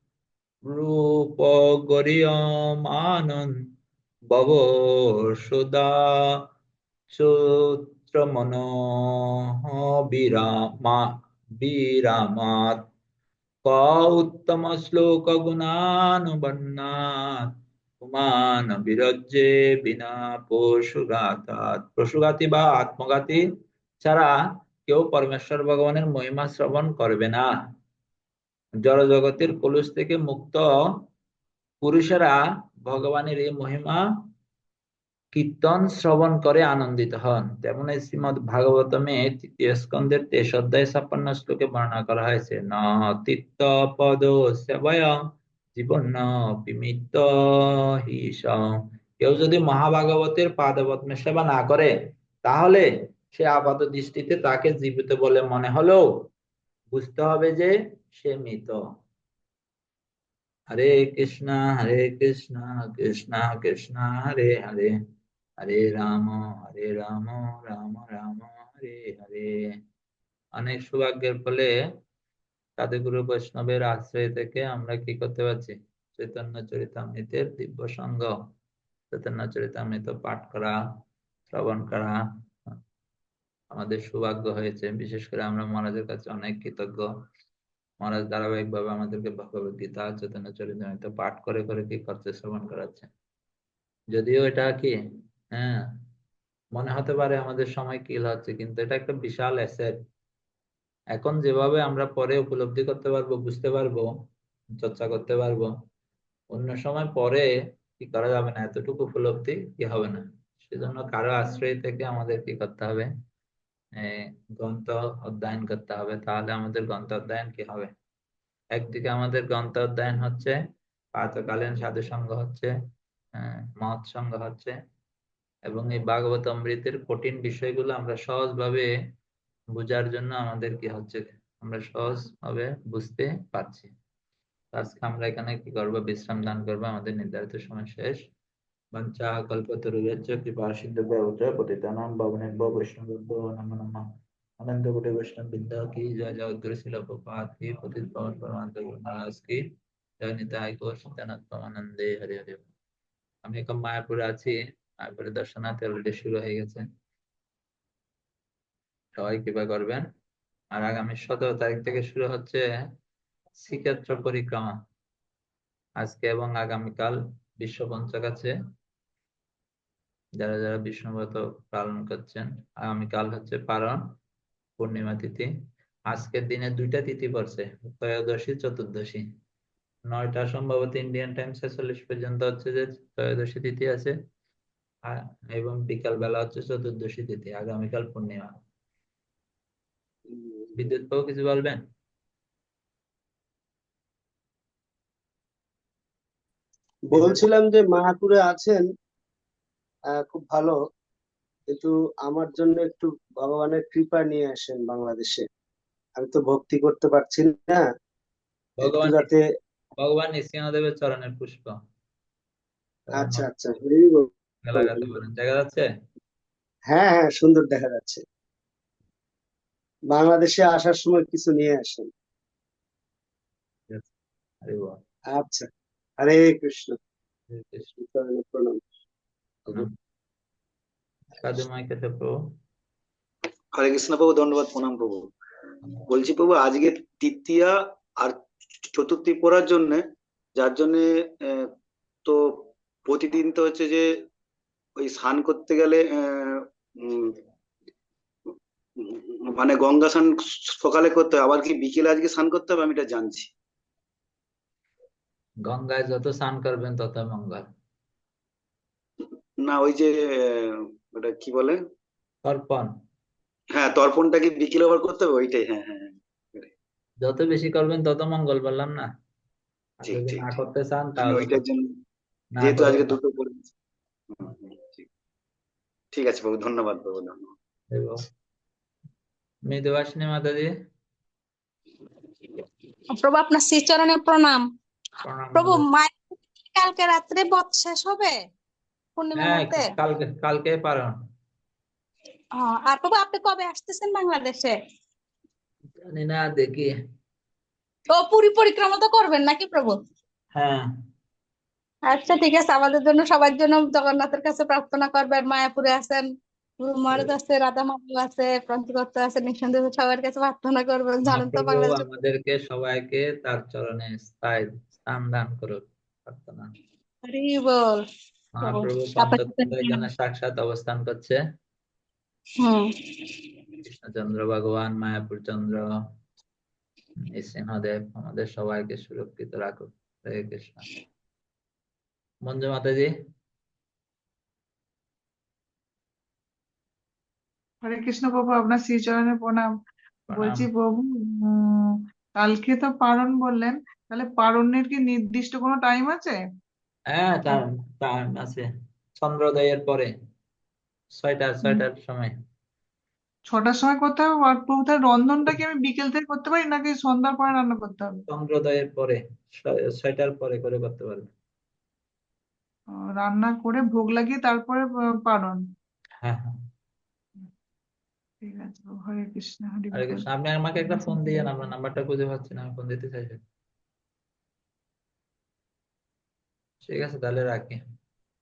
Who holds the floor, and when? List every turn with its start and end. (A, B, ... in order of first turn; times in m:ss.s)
0:00.7-0:03.5 A
0:04.3-0:06.4 A
0:07.1-0:11.1 A
0:11.6-0:12.8 A
0:13.6-0:17.4 A
0:18.0-0:23.4 A
0:24.0-0:24.3 A
0:24.8-0:27.5 A
0:28.8-0:30.7 A
0:31.8-0:34.0 A
0:35.3-0:45.2 A
0:45.7-0:51.9 A
0:52.4-0:56.1 A
0:56.9-0:58.8 A
1:00.7-1:04.9 A
1:05.6-1:09.5 A
1:10.6-1:11.7 A
1:12.8-1:18.3 A
1:19.1-1:20.8 A
1:21.5-1:22.2 A
1:23.7-1:27.1 A
1:28.0-1:33.1 A
1:34.1-1:34.9 A
1:35.6-1:35.9 A
1:36.7-1:40.0 A
1:41.1-1:44.1 A
1:44.8-1:45.7 A
1:46.5-1:53.1 A
1:54.0-1:57.9 A
1:58.8-2:00.6 A
2:01.2-2:02.7 A
2:03.4-2:04.7 A
2:05.7-2:08.9 A
2:09.8-2:13.9 A
2:14.7-2:18.2 A
2:18.9-2:24.0 A
2:24.6-2:29.6 A
2:30.2-2:32.7 A
2:33.4-2:36.8 A
2:39.2-2:40.0 A
2:40.7-2:42.6 A
2:43.6-2:44.7 A
2:46.0-2:48.5 A
2:50.4-2:54.0 A
2:54.8-2:55.5 A
2:56.1-2:59.2 A
3:00.1-3:04.1 A
3:05.1-3:08.5 A
3:10.8-3:11.8 A
3:17.1-3:18.8 B
3:17.1-3:17.4 A
3:20.1-3:20.8 B
3:21.7-3:25.4 B
3:26.2-3:27.8 B
3:28.8-3:29.3 A
3:28.8-3:29.4 B
3:30.0-3:31.7 A
3:33.0-3:33.5 A
3:33.2-3:35.1 B
3:34.6-3:35.8 A
3:36.9-3:38.2 B
3:40.1-3:42.1 B
3:44.6-3:45.0 A
3:45.3-3:45.7 B
3:46.2-3:46.9 B
3:47.5-3:47.9 A
3:48.0-3:48.8 B
3:51.4-3:52.3 A
3:53.7-3:55.3 C
3:56.1-4:00.0 C
4:00.6-4:01.7 C
4:02.3-4:04.0 C
4:05.0-4:07.3 C
4:09.0-4:13.5 C
4:15.6-4:17.6 A
4:19.6-4:21.8 C
4:22.4-4:22.9 A
4:23.7-4:26.7 C
4:27.2-4:29.1 A
4:30.0-4:30.6 C
4:30.1-4:31.6 A
4:31.2-4:31.8 C
4:32.6-4:33.2 A
4:32.6-4:33.7 C
4:34.3-4:35.1 C
4:36.1-4:37.5 C
4:37.9-4:38.2 A
4:39.7-4:40.7 A
4:43.1-4:44.6 D
4:45.2-4:45.8 A
4:45.5-4:46.1 D
4:46.7-4:48.4 D
4:49.2-4:49.9 D
4:49.4-4:51.1 A
4:52.6-4:54.8 D
4:56.1-4:56.9 A
4:58.1-4:59.9 D
5:00.5-5:00.8 A
5:02.1-5:06.3 D
5:06.8-5:12.1 D
5:11.3-5:16.7 A
5:17.2-5:18.0 D
5:18.5-5:21.4 A
5:18.6-5:20.0 D
5:22.6-5:23.4 D
5:23.8-5:25.8 A
5:27.4-5:30.8 A
5:32.4-5:33.1 A
5:37.8-5:39.7 E
5:40.3-5:40.7 A
5:40.4-5:41.8 E
5:42.4-5:46.4 E
5:47.1-5:48.6 A
5:49.2-5:50.1 A
5:51.1-5:52.3 A
5:53.5-5:58.2 E
5:58.3-6:01.3 A
6:03.2-6:05.6 E
6:06.2-6:06.5 A
6:08.4-6:10.3 E
6:09.9-6:13.4 A
6:10.9-6:11.5 E
6:16.8-6:17.8 A